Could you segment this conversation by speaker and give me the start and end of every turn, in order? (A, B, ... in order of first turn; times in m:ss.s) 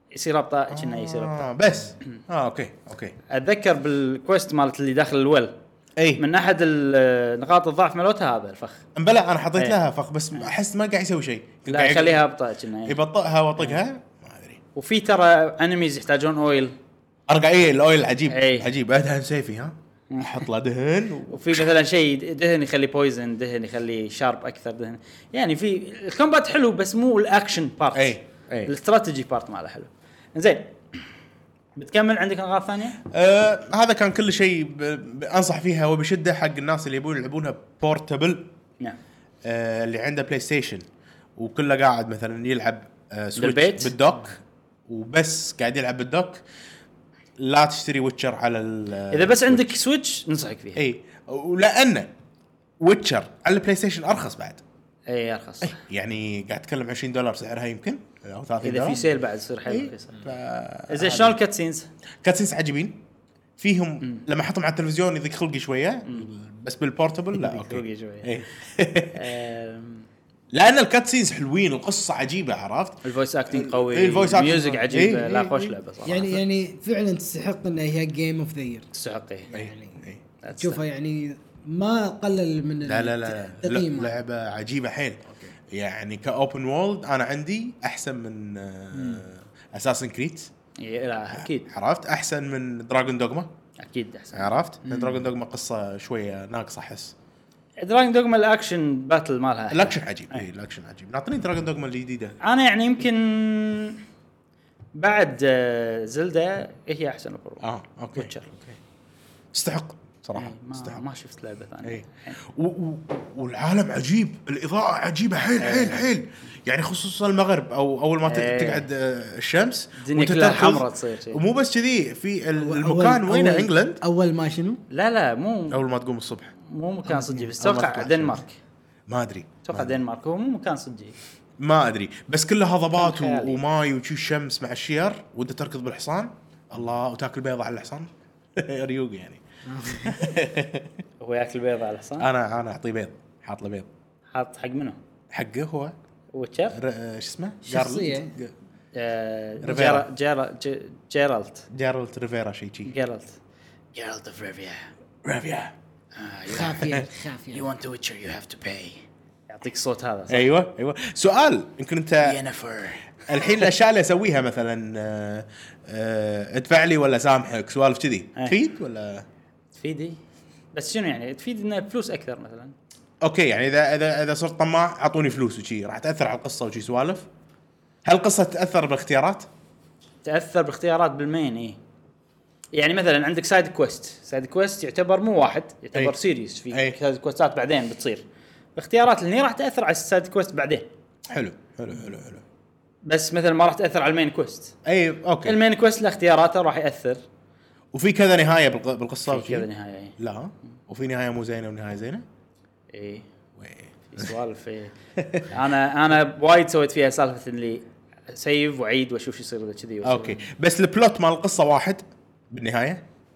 0:00.1-0:01.4 A
0:00.7-0:03.2 B
0:03.3-0:05.5 A
0:06.0-0:06.2 B
0:06.2-0:08.8 A
0:09.0-0:12.2 B
0:11.7-0:13.0 A
0:12.8-0:14.6 B
0:14.7-0:16.7 A
0:17.3-0:21.7 B
0:18.3-0:18.7 A
0:20.1-0:20.5 A
0:21.3-0:30.7 A
0:27.9-0:28.7 B
0:31.8-0:33.0 A
0:33.0-0:38.5 B
0:39.4-0:40.8 B
0:41.4-0:46.4 B
0:43.4-0:43.9 A
0:47.4-0:49.8 B
0:49.1-0:50.8 A
0:50.8-0:52.1 B
0:52.8-0:54.6 B
0:55.1-0:55.8 A
0:55.6-0:59.0 B
0:58.6-1:00.2 A
0:59.7-1:01.4 B
1:00.9-1:01.9 A
1:02.2-1:03.0 B
1:03.6-1:09.2 B
1:07.3-1:08.4 A
1:09.1-1:10.1 A
1:10.5-1:15.5 B
1:13.0-1:16.4 A
1:15.0-1:15.5 C
1:16.0-1:18.8 C
1:18.9-1:19.5 A
1:19.5-1:20.0 C
1:19.5-1:20.2 B
1:20.4-1:20.8 A
1:20.6-1:24.2 C
1:22.8-1:30.5 B
1:28.9-1:29.2 C
1:30.8-1:31.7 A
1:31.3-1:33.5 B
1:33.8-1:35.2 A
1:34.3-1:37.1 B
1:37.8-1:40.4 A
1:39.7-1:42.4 B
1:42.4-1:44.0 A
1:44.9-1:48.5 A
1:47.6-1:48.8 B
1:49.5-1:51.0 B
1:50.4-1:52.4 A
1:51.8-2:04.0 B
1:55.6-1:56.0 A
1:58.2-1:58.9 A
2:00.0-2:01.4 A
2:02.6-2:04.8 C
2:04.9-2:05.8 A
2:05.7-2:06.5 B
2:06.6-2:08.5 A
2:07.2-2:07.5 C
2:07.6-2:08.4 B
2:09.1-2:10.0 B
2:09.6-2:11.2 A
2:11.6-2:19.4 B
2:13.0-2:13.6 A
2:19.6-2:20.2 C
2:19.9-2:21.0 B
2:21.2-2:22.3 A
2:22.2-2:23.9 B
2:24.3-2:25.0 A
2:25.3-2:26.0 B
2:26.3-2:26.8 A
2:26.7-2:28.5 B
2:27.6-2:28.3 C
2:28.9-2:31.7 A
2:29.6-2:30.1 B
2:31.7-2:32.9 B
2:32.8-2:33.4 A
2:33.9-2:34.9 A
2:35.2-2:35.7 B
2:36.2-2:36.9 A
2:36.5-2:37.7 C
2:37.5-2:40.5 A
2:40.3-2:42.4 B
2:42.2-2:43.6 A
2:43.2-2:49.2 B
2:49.8-2:50.2 A
2:50.7-2:52.7 A
2:53.2-2:57.3 B
2:58.0-2:59.5 B
3:00.2-3:01.8 A
3:02.7-3:08.2 A
3:06.7-3:07.0 B
3:08.8-3:10.9 A
3:11.3-3:12.4 B
3:13.1-3:14.8 A
3:14.8-3:15.6 B
3:15.4-3:17.2 A
3:17.9-3:22.2 B
3:19.3-3:20.2 A
3:22.9-3:23.2 A
3:23.6-3:24.3 B
3:24.1-3:30.5 A
3:25.2-3:25.5 B
3:30.0-3:33.0 B